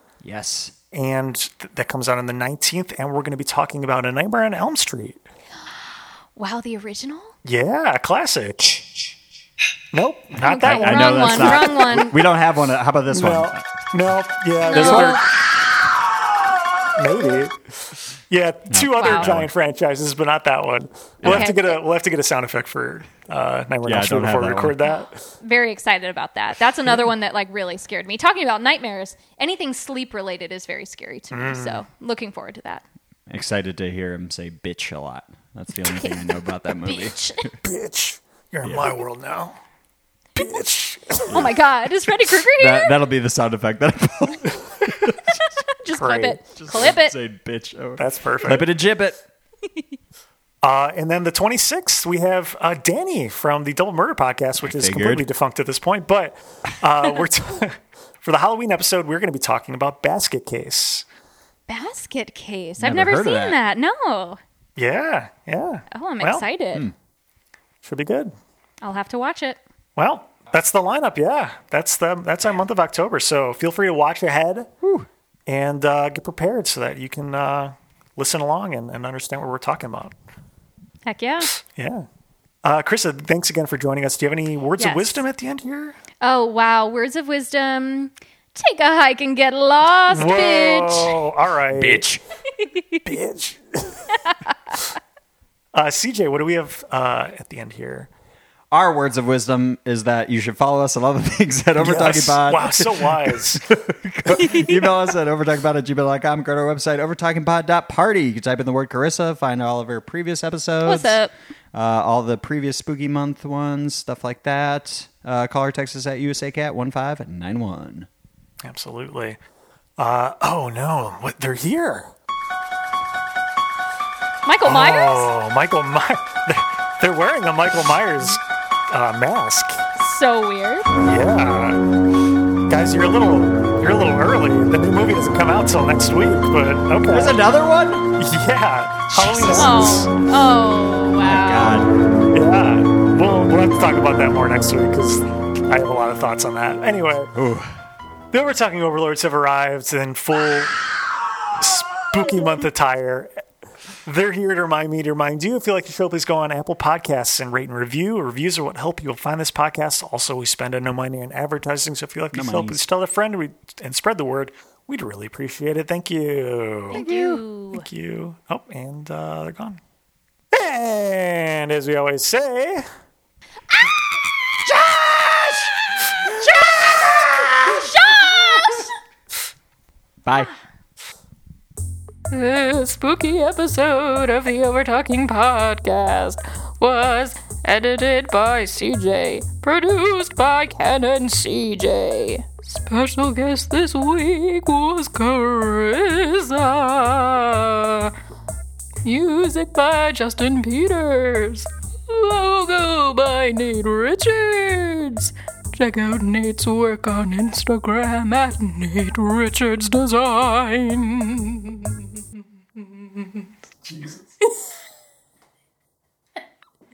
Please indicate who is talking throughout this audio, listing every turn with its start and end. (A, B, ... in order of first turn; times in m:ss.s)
0:00.2-0:00.7 A
0:00.9-0:05.2 B
0:06.3-0:07.3 C
0:07.4-0:09.0 B
0:09.9-0:12.0 B
0:10.4-0:13.7 A
0:10.4-0:12.2 C
0:13.1-0:15.5 B
0:14.6-0:15.2 C
0:14.7-0:15.4 A
0:16.9-0:25.2 B
0:18.7-0:19.5 A
0:18.9-0:19.4 C
0:21.2-0:21.5 A
0:21.2-0:21.8 C
0:23.8-0:24.7 A
0:25.4-0:32.8 C
0:31.3-0:31.8 B
0:33.3-0:37.5 A
0:35.8-0:37.5 C
0:37.6-0:39.6 B
0:40.4-0:41.6 B
0:41.3-0:42.9 C
0:42.6-0:44.8 A
0:45.8-0:47.1 C
0:45.9-0:46.4 B
0:46.6-0:49.2 A
0:48.0-0:48.7 B
0:50.6-1:01.0 B
0:54.6-0:55.2 A
1:01.7-1:04.4 C
1:02.8-1:03.6 A
1:04.8-1:06.4 B
1:05.9-1:06.8 C
1:07.8-1:08.3 B
1:08.8-1:09.6 C
1:10.0-1:14.7 B
1:14.8-1:15.1 A
1:15.5-1:20.1 B
1:21.0-1:21.5 C
1:21.6-1:22.1 B
1:22.6-1:26.0 B
1:24.8-1:25.2 C
1:26.2-1:31.2 C
1:30.1-1:32.2 B
1:31.7-1:32.2 A
1:32.7-1:33.0 C
1:33.0-1:34.1 B
1:35.7-1:38.1 B
1:38.7-1:51.2 A
1:41.8-1:43.6 B
1:44.4-1:44.9 C
1:50.8-1:51.3 C
1:51.7-1:58.1 A
1:58.6-1:59.4 B
2:00.0-2:02.1 B
2:04.4-2:05.3 C
2:04.6-2:09.9 B
2:10.0-2:10.9 C
2:11.0-2:11.8 B
2:12.7-2:17.4 B
2:17.1-2:18.2 A
2:18.2-2:20.1 B
2:19.1-2:21.8 C
2:21.2-2:21.9 A
2:22.3-2:27.3 B
2:27.3-2:27.7 A
2:28.3-2:30.8 B
2:31.6-2:33.4 B
2:34.0-2:47.0 B
2:42.3-2:42.8 A
2:46.9-2:47.8 C
2:47.0-2:47.4 A
2:47.7-2:49.8 B
2:50.5-2:52.8 B
2:54.7-2:57.9 B
2:56.5-2:56.9 C
2:57.6-2:58.9 C
3:00.2-3:00.5 A
3:02.3-3:18.1 D
3:19.0-3:32.2 D
3:32.8-3:33.4 D
3:33.8-3:34.3 B